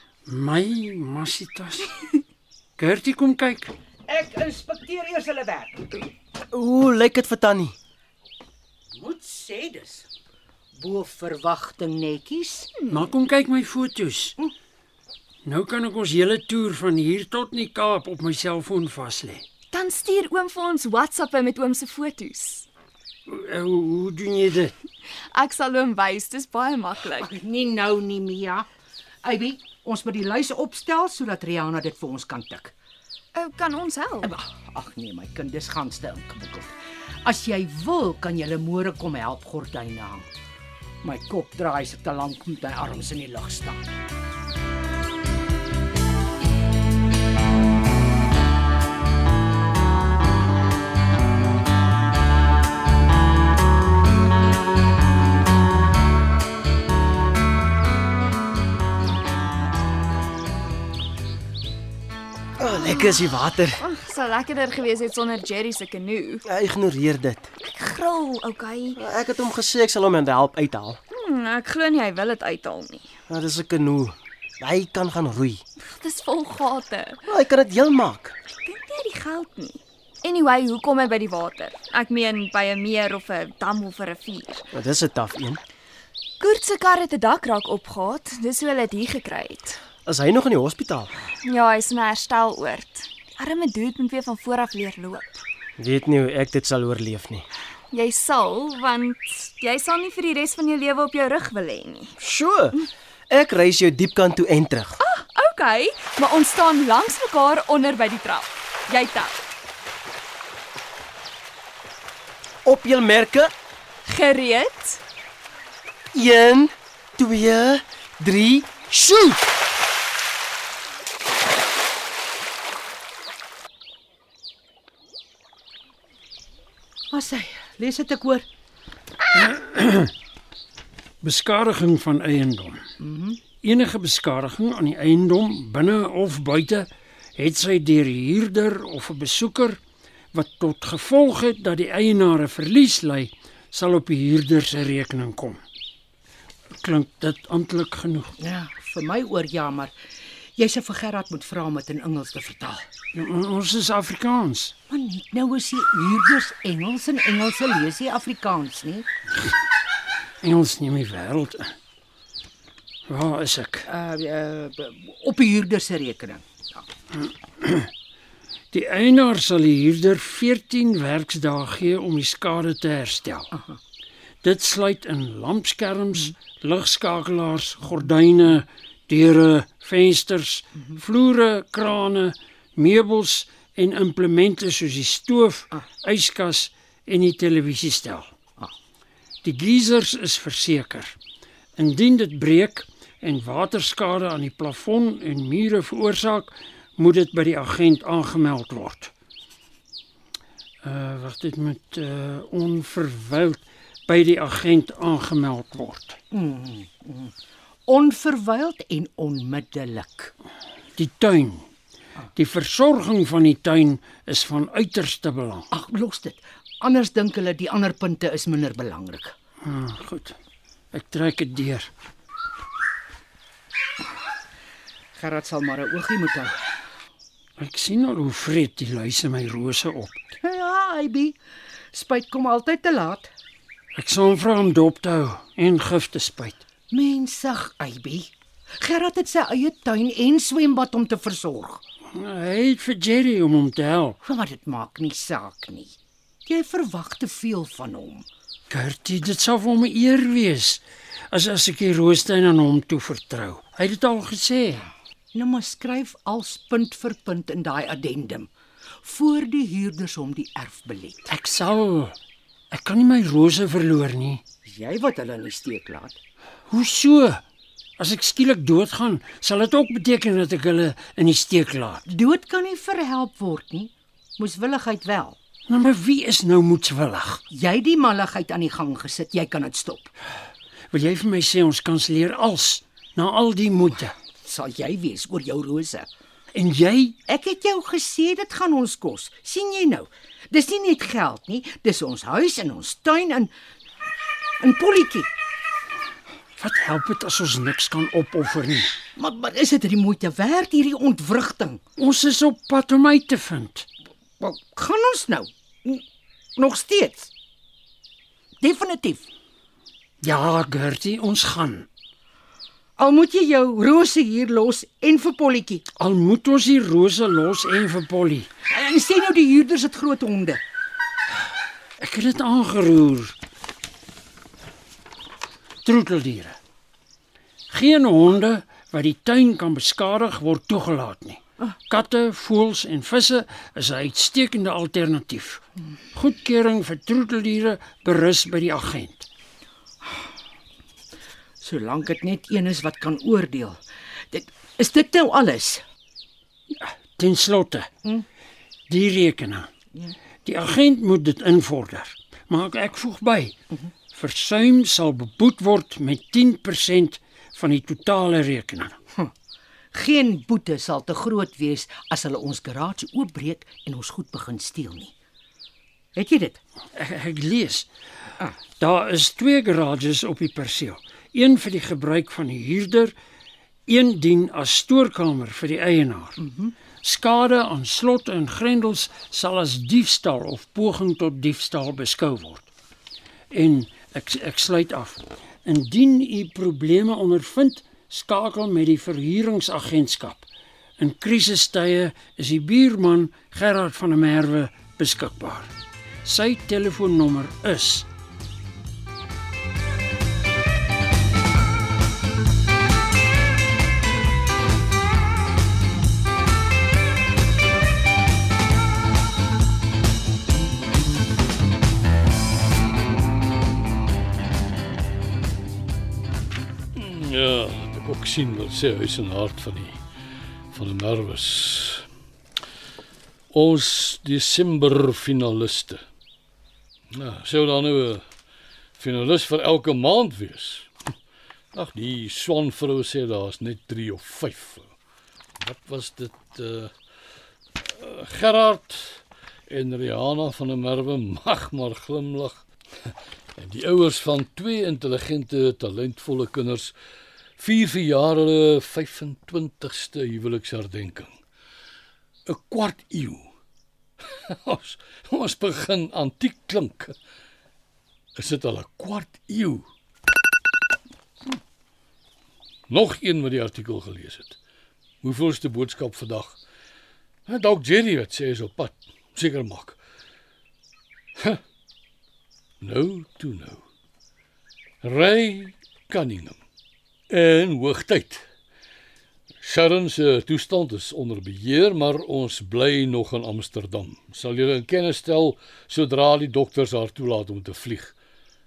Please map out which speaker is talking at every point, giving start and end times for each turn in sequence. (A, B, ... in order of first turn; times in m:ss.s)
0:00.2-0:01.9 A
0:02.8-0:03.7 A
0:04.1-0:05.9 B
0:06.5-0:07.8 C
0:09.0-0:10.1 B
0:10.8-0:12.7 B
0:12.9-0:14.4 A
0:15.4-0:19.4 A
0:19.7-0:22.7 D
0:23.2-0:24.8 A
0:25.3-0:27.3 D
0:27.2-0:28.7 B
0:29.2-0:32.7 B
0:33.3-0:34.3 D
0:34.2-0:40.3 B
0:41.0-0:43.8 B
1:02.6-1:03.8 C
1:02.8-1:03.2 D
1:03.8-1:06.4 D
1:06.4-1:07.5 C
1:07.6-1:09.0 D
1:09.0-1:11.0 C
1:11.1-1:13.1 D
1:13.3-1:15.6 C
1:15.8-1:17.2 D
1:17.2-1:18.3 C
1:18.5-1:24.7 D
1:24.7-1:25.6 C
1:26.4-1:29.8 D
1:30.0-1:31.1 C
1:31.4-1:35.4 D
1:35.8-1:37.4 C
1:37.9-1:42.2 D
1:42.2-1:42.8 C
1:43.3-1:45.0 C
1:45.0-1:49.4 D
1:52.6-1:53.5 C
1:54.0-1:55.0 D
1:56.1-1:59.4 C
2:07.1-2:08.4 B
2:09.3-2:10.1 A
2:11.2-2:12.8 A
2:13.0-2:13.4 B
2:13.6-2:19.8 A
2:20.3-2:25.6 A
2:26.7-2:28.3 A
2:28.4-2:29.9 B
2:30.6-2:32.9 B
2:33.1-2:34.7 A
2:34.9-2:39.1 B
2:40.4-2:41.8 A
2:43.1-2:43.9 A
2:43.8-2:46.8 B
2:47.6-2:47.9 A
2:48.7-2:53.5 A
2:54.4-3:08.3 A
3:09.4-3:11.2 A
3:11.8-3:19.1 A
3:20.8-3:26.2 A
3:26.3-3:27.3 B
3:27.9-3:30.3 B
3:31.0-3:31.7 A
3:32.3-3:35.7 A
3:35.7-3:39.3 B
3:39.6-3:40.4 A
3:40.9-3:41.9 A
3:45.2-3:46.8 B
3:47.6-3:50.2 A
3:50.4-3:51.4 B
3:51.9-3:53.3 B
3:53.9-3:56.6 A
3:56.9-4:01.8 B
4:02.1-4:04.2 A
4:04.2-4:05.9 B
4:06.4-4:08.2 B
4:08.7-4:14.9 A
4:15.3-4:18.5 B
4:19.0-4:21.3 B
4:21.3-4:22.2 A
4:22.7-4:24.4 A
4:24.6-4:26.2 B
4:26.7-4:27.4 A
4:28.0-4:32.0 A
4:32.1-4:35.4 B
4:35.7-4:37.4 A
4:37.5-4:40.1 B
4:40.9-4:44.2 A
4:44.4-4:46.1 B
4:46.5-4:47.2 A
4:47.2-4:53.5 B
4:54.6-4:55.3 B
4:56.6-4:59.0 A
4:59.2-5:01.8 B
5:02.0-5:03.9 A
5:04.4-5:06.0 B
5:06.6-5:07.3 B
5:08.6-5:09.3 B
5:10.2-5:11.9 A
5:13.0-5:15.8 B
5:15.9-5:18.5 A
5:18.7-5:20.6 B
5:22.0-5:23.4 A
5:25.8-5:26.6 A
5:27.7-5:39.3 A
5:41.6-5:45.8 B
5:46.7-5:47.9 A
5:48.9-5:49.7 A
5:50.4-5:53.5 A
5:54.1-5:59.0 A
5:59.9-6:05.1 B
6:06.1-6:06.6 B
6:06.9-6:07.9 A
6:08.8-6:13.1 A
6:13.9-6:16.4 A
6:16.4-6:16.8 B
6:17.0-6:22.7 A
6:23.5-6:30.5 A
6:31.0-6:35.7 A
6:36.2-6:38.1 A
6:56.9-7:00.0 E
7:00.7-7:02.1 E
7:03.5-7:06.0 E
7:07.1-7:08.2 E
7:09.0-7:10.9 E
7:11.7-7:14.9 E
7:15.6-7:16.9 E
7:17.8-7:22.6 E
7:23.6-7:26.9 E
7:27.6-7:31.3 E
7:32.5-7:33.5 E
7:34.2-7:37.2 E
7:38.4-7:39.9 E
7:42.9-7:44.6 E
7:45.2-7:46.6 E
7:47.5-7:50.0 E
7:52.8-7:53.8 E
7:55.0-7:56.6 E
7:57.3-7:58.4 E
7:59.6-8:08.1 E